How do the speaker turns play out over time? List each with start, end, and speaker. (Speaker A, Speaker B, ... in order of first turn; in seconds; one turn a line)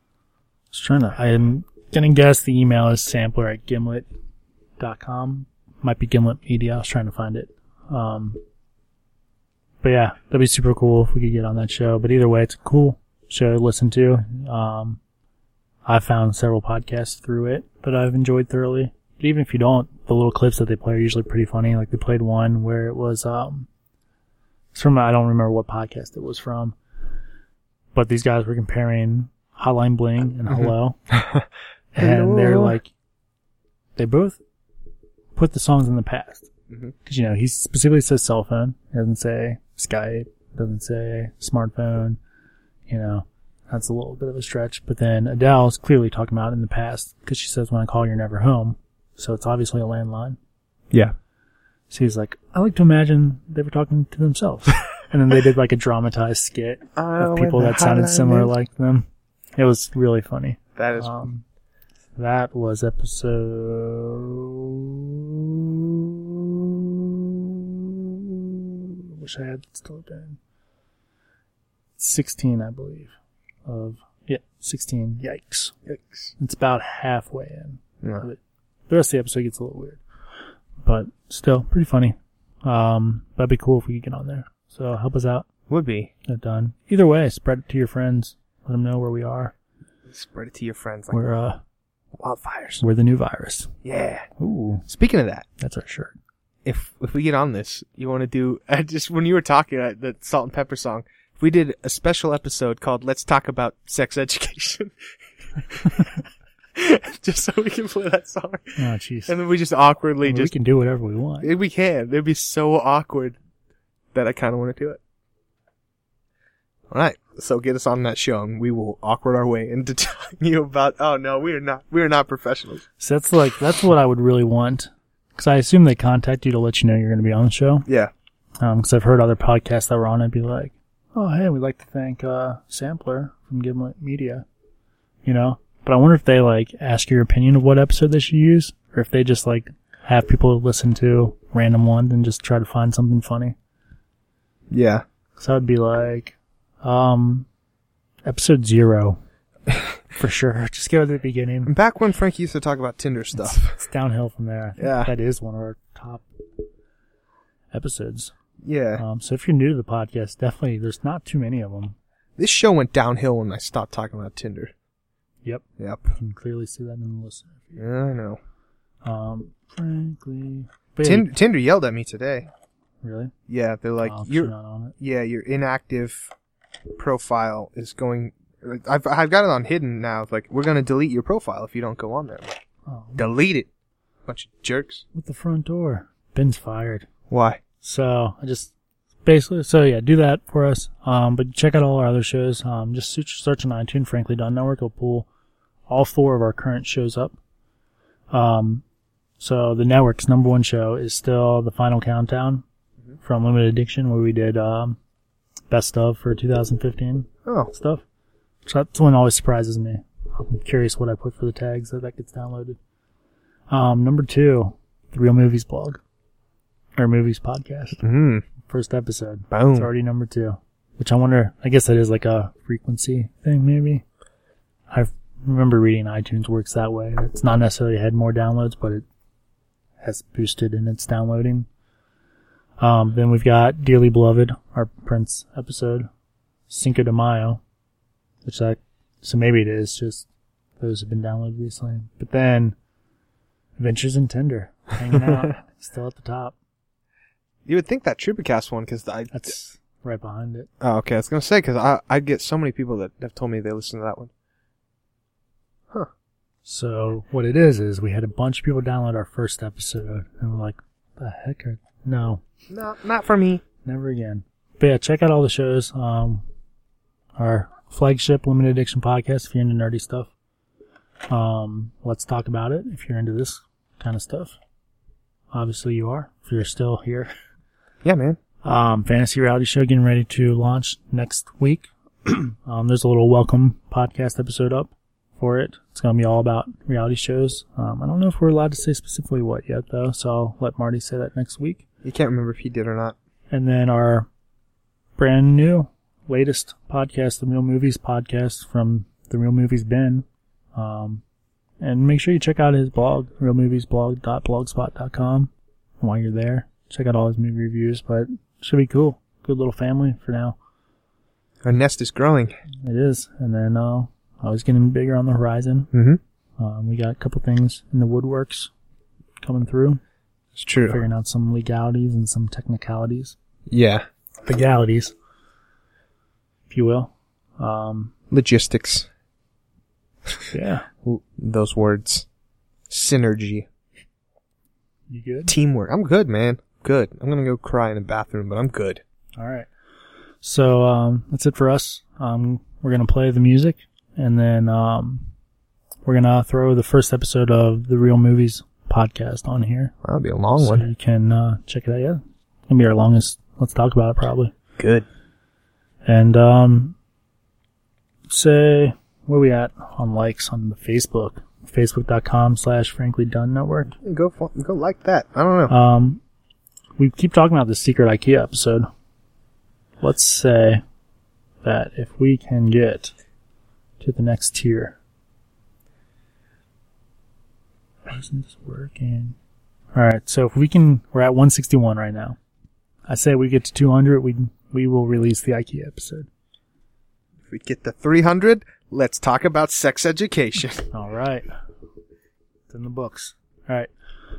Speaker A: 0.7-4.0
Speaker A: 4.8-8.4
Speaker A: 9.8-15.0
Speaker A: 15.8-23.7
Speaker A: 24.7-26.8
Speaker A: 27.9-31.1
Speaker B: 30.5-31.4
Speaker A: 31.9-32.9
Speaker B: 32.0-32.8
Speaker A: 34.0-34.4
Speaker A: 35.3-36.5
Speaker A: 37.0-42.2
Speaker A: 42.9-50.4
Speaker A: 51.9-61.4
Speaker B: 57.0-58.5
Speaker B: 60.8-61.2
Speaker A: 62.2-66.7
Speaker A: 68.7-70.4
Speaker A: 72.0-73.1
Speaker A: 73.7-75.7
Speaker B: 75.9-76.3
Speaker A: 76.4-80.0
Speaker B: 78.0-78.3
Speaker A: 80.8-85.5
Speaker B: 85.7-86.1
Speaker A: 86.3-89.5
Speaker B: 90.1-91.3
Speaker A: 91.1-91.6
Speaker B: 92.1-92.8
Speaker A: 92.8-93.7
Speaker B: 93.8-94.3
Speaker A: 94.4-94.9
Speaker B: 94.9-95.4
Speaker A: 95.6-96.1
Speaker B: 96.6-104.9
Speaker B: 105.6-106.2
Speaker B: 106.7-110.5
Speaker A: 108.8-109.3
Speaker A: 110.2-111.5
Speaker B: 111.4-113.4
Speaker B: 114.1-115.0
Speaker B: 116.9-122.8
Speaker A: 123.0-127.9
Speaker B: 127.9-128.1
Speaker A: 128.6-134.4
Speaker A: 135.2-143.6
Speaker B: 144.7-145.0
Speaker A: 145.4-147.5
Speaker A: 148.2-149.2
Speaker A: 150.1-151.7
Speaker B: 151.7-153.8
Speaker A: 153.4-156.2
Speaker B: 154.8-155.1
Speaker A: 157.7-158.3
Speaker B: 158.6-159.0
Speaker A: 159.0-161.9
Speaker B: 162.4-164.7
Speaker B: 165.8-166.1
Speaker A: 166.1-167.8
Speaker B: 167.8-168.4
Speaker A: 169.0-171.3
Speaker B: 171.0-172.5
Speaker A: 173.0-173.3
Speaker B: 173.5-176.3
Speaker A: 174.0-174.9
Speaker B: 176.9-182.5
Speaker A: 182.9-183.3
Speaker B: 183.2-183.7
Speaker B: 184.2-185.0
Speaker A: 185.1-187.1
Speaker B: 187.3-187.6
Speaker A: 187.8-188.7
Speaker A: 189.2-195.3
Speaker A: 195.9-197.4
Speaker A: 198.3-198.8
Speaker A: 199.4-202.6
Speaker A: 203.2-205.0
Speaker A: 205.7-208.0
Speaker B: 207.4-207.7
Speaker A: 208.7-212.8
Speaker A: 213.7-216.0
Speaker A: 216.9-218.0
Speaker B: 218.0-218.4
Speaker A: 218.6-224.0
Speaker B: 219.5-219.9
Speaker A: 224.9-229.0
Speaker A: 230.0-231.7
Speaker A: 232.8-236.1
Speaker A: 236.7-237.6
Speaker A: 238.4-240.2
Speaker A: 240.8-242.8
Speaker A: 243.8-246.5
Speaker B: 247.7-249.7
Speaker A: 249.3-250.7
Speaker B: 250.8-254.3
Speaker A: 256.6-262.4
Speaker B: 262.7-263.6
Speaker A: 263.8-266.4
Speaker A: 267.4-270.3
Speaker A: 271.3-274.6
Speaker A: 275.5-277.3
Speaker B: 278.0-278.4
Speaker A: 278.6-291.8
Speaker B: 292.0-293.1
Speaker A: 293.5-294.3
Speaker A: 295.2-301.2
Speaker A: 301.8-310.6
Speaker B: 311.6-312.5
Speaker A: 312.8-315.9
Speaker B: 315.9-316.2
Speaker A: 316.6-318.7
Speaker A: 319.4-320.0
Speaker B: 320.6-321.0
Speaker A: 320.9-323.4
Speaker B: 323.7-324.0
Speaker A: 324.4-325.1
Speaker A: 326.7-328.1
Speaker B: 328.3-329.1
Speaker A: 330.5-330.9
Speaker B: 331.0-332.2
Speaker B: 332.9-333.7
Speaker A: 335.1-335.5
Speaker B: 335.5-339.0
Speaker A: 339.4-339.7
Speaker A: 340.4-345.3
Speaker A: 346.0-349.9
Speaker B: 350.0-350.9
Speaker A: 350.6-354.5
Speaker B: 354.8-355.1
Speaker A: 356.0-356.9
Speaker A: 358.3-363.9
Speaker B: 364.0-365.7
Speaker A: 365.7-366.2
Speaker A: 367.0-368.9
Speaker A: 370.0-370.8
Speaker A: 371.6-373.1
Speaker A: 374.0-375.0
Speaker A: 378.1-379.4
Speaker A: 379.9-382.4
Speaker A: 383.1-386.3
Speaker B: 387.5-390.9
Speaker A: 390.9-391.5
Speaker A: 392.7-393.9